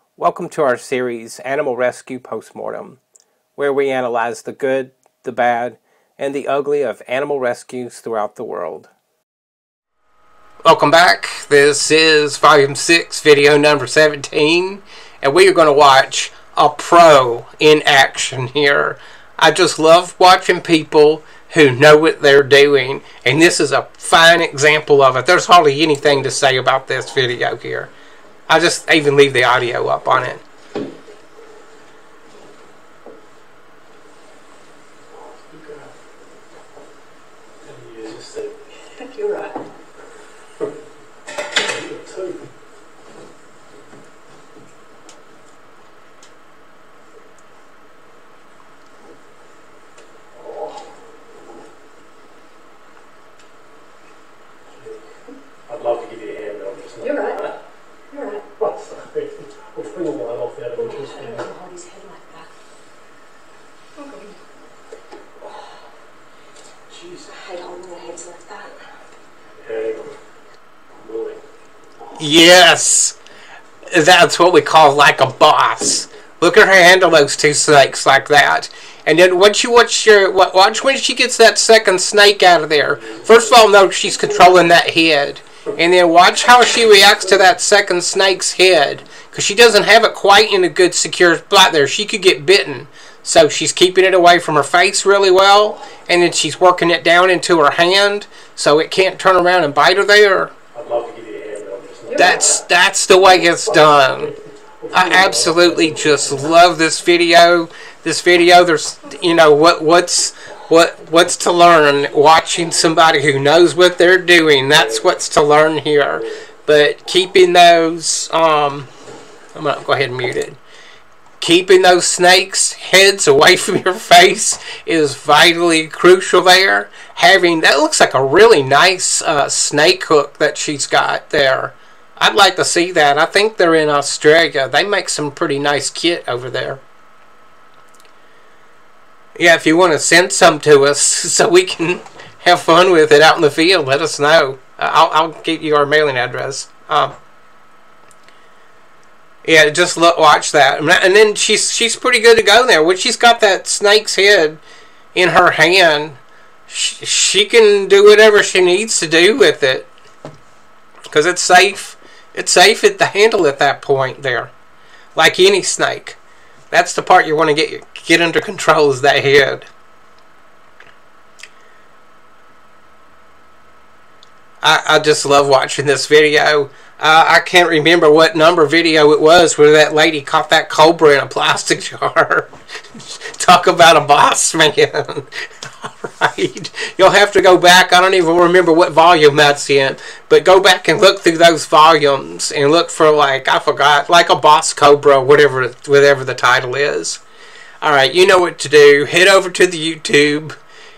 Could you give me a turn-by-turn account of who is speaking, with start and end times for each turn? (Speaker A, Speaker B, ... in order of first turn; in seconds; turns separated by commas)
Speaker A: 0.2-3.0, Speaker A: 3.5-8.9, Speaker A: 10.6-27.9, Speaker A: 28.5-30.4, Speaker B: 35.5-35.9, Speaker B: 37.6-38.8, Speaker C: 39.0-39.6, Speaker B: 41.5-42.5, Speaker B: 55.7-57.6, Speaker C: 57.0-57.4, Speaker C: 58.1-58.5, Speaker B: 58.6-61.5, Speaker C: 60.8-62.5, Speaker C: 64.0-64.4, Speaker B: 66.9-67.3, Speaker C: 67.2-68.8, Speaker B: 69.6-70.1, Speaker B: 71.0-71.4, Speaker A: 72.2-73.2, Speaker A: 73.9-100.5, Speaker B: 100.7-102.6, Speaker A: 102.1-104.4, Speaker B: 104.8-106.2, Speaker A: 104.9-118.9, Speaker A: 119.5-120.6, Speaker A: 121.4-136.8, Speaker A: 139.4-147.1, Speaker A: 149.4-154.6, Speaker A: 155.1-159.9, Speaker A: 161.1-164.5, Speaker A: 165.1-166.2, Speaker A: 166.7-169.7, Speaker A: 174.6-197.2, Speaker A: 197.8-200.5